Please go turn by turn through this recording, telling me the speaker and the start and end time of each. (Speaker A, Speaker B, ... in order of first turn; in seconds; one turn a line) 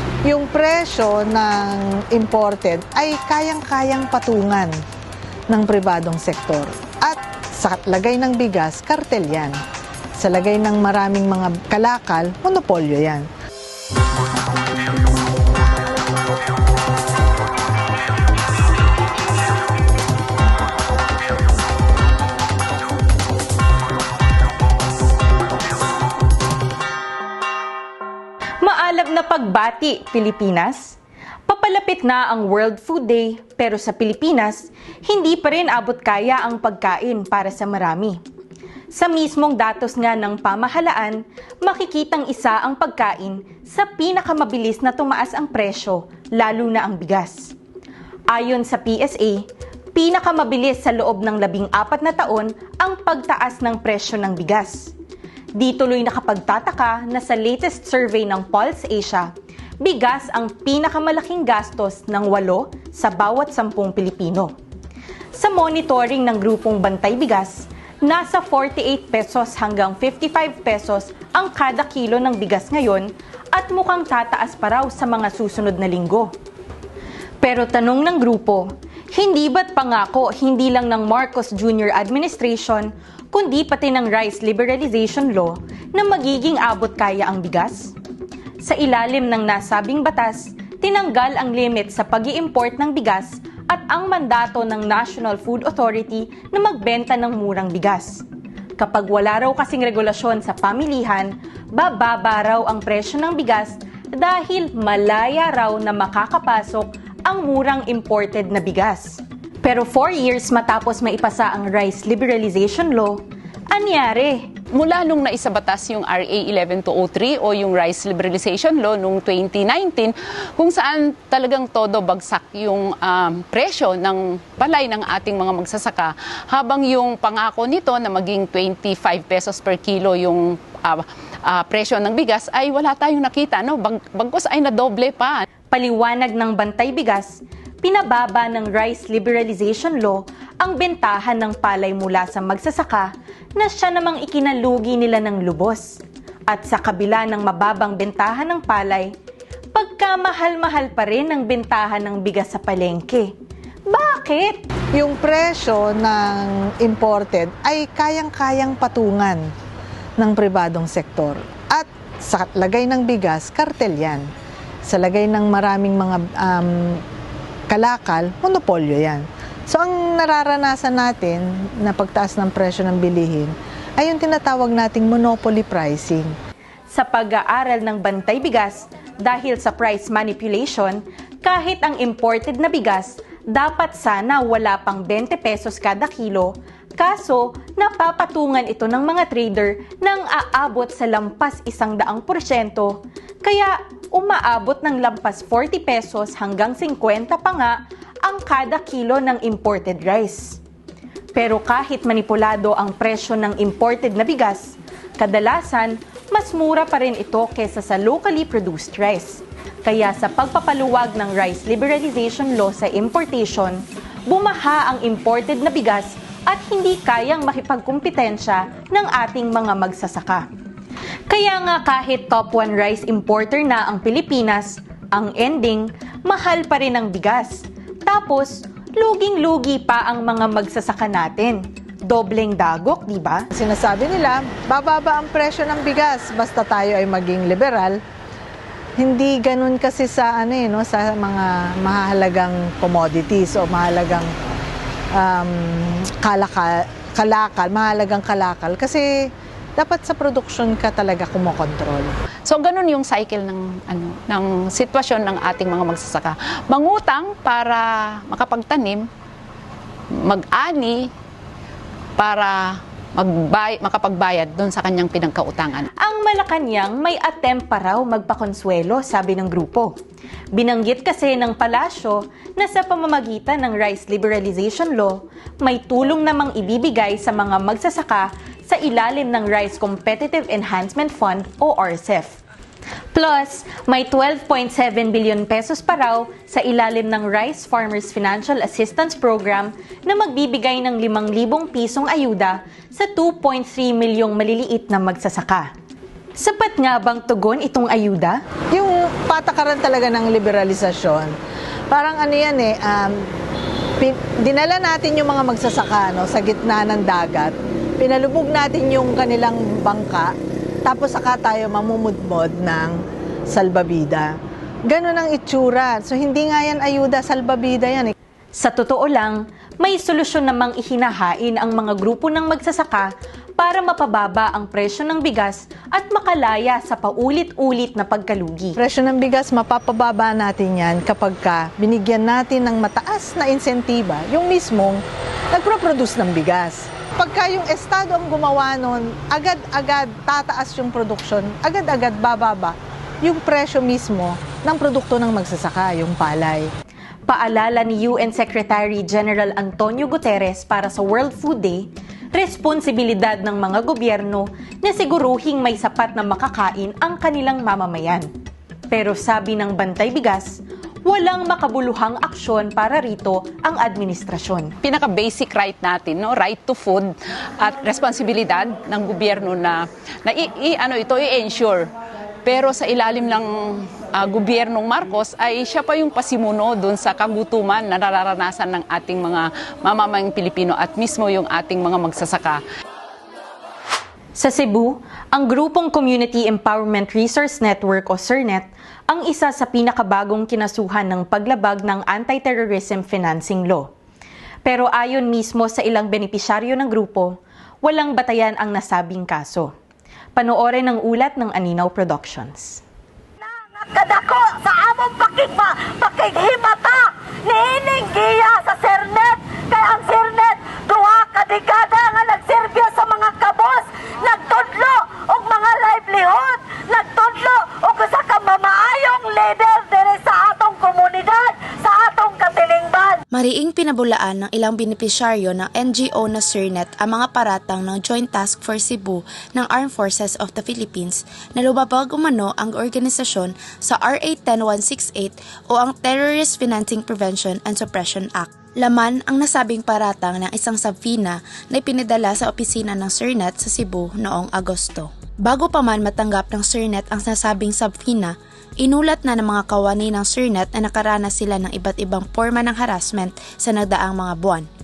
Speaker A: 0.3-4.7
Speaker A: 5.5-9.6
Speaker A: 10.2-13.3
Speaker B: 28.6-31.0
Speaker B: 31.5-38.2
Speaker B: 38.9-47.5
Speaker B: 48.3-54.9
Speaker B: 55.6-59.3
Speaker B: 59.8-64.5
Speaker B: 65.3-76.3
Speaker B: 77.4-87.9
Speaker B: 88.6-98.2
Speaker B: 98.8-114.4
Speaker C: 114.7-135.4
Speaker B: 135.7-149.1
Speaker B: 149.8-153.3
Speaker B: 153.9-154.6
Speaker A: 154.9-159.4
Speaker A: 160.2-164.3
Speaker A: 164.9-167.0
Speaker A: 167.7-176.3
Speaker B: 176.9-200.6
Speaker B: 201.3-220.4
Speaker B: 221.3-233.5
Speaker A: 233.5-238.0
Speaker A: 239.0-244.3
Speaker A: 245.2-249.1
Speaker A: 249.8-252.1
Speaker C: 252.5-259.1
Speaker C: 260.2-261.1
Speaker C: 262.2-262.6
Speaker C: 263.1-265.9
Speaker B: 266.0-269.9
Speaker B: 270.6-282.4
Speaker B: 283.1-295.7
Speaker B: 296.4-298.4
Speaker A: 298.7-301.3
Speaker A: 301.9-303.1
Speaker A: 304.0-310.3
Speaker A: 310.9-313.0
Speaker A: 313.5-314.3
Speaker A: 314.9-318.1
Speaker B: 318.6-328.8
Speaker A: 328.8-335.0
Speaker A: 335.5-346.7
Speaker B: 347.3-358.3
Speaker B: 358.9-364.7
Speaker C: 364.8-371.9
Speaker C: 372.4-382.6
Speaker B: 384.4-393.9
Speaker B: 394.6-399.7
Speaker B: 400.4-402.8
Speaker D: 403.4-423.2
Speaker E: 423.3-454.7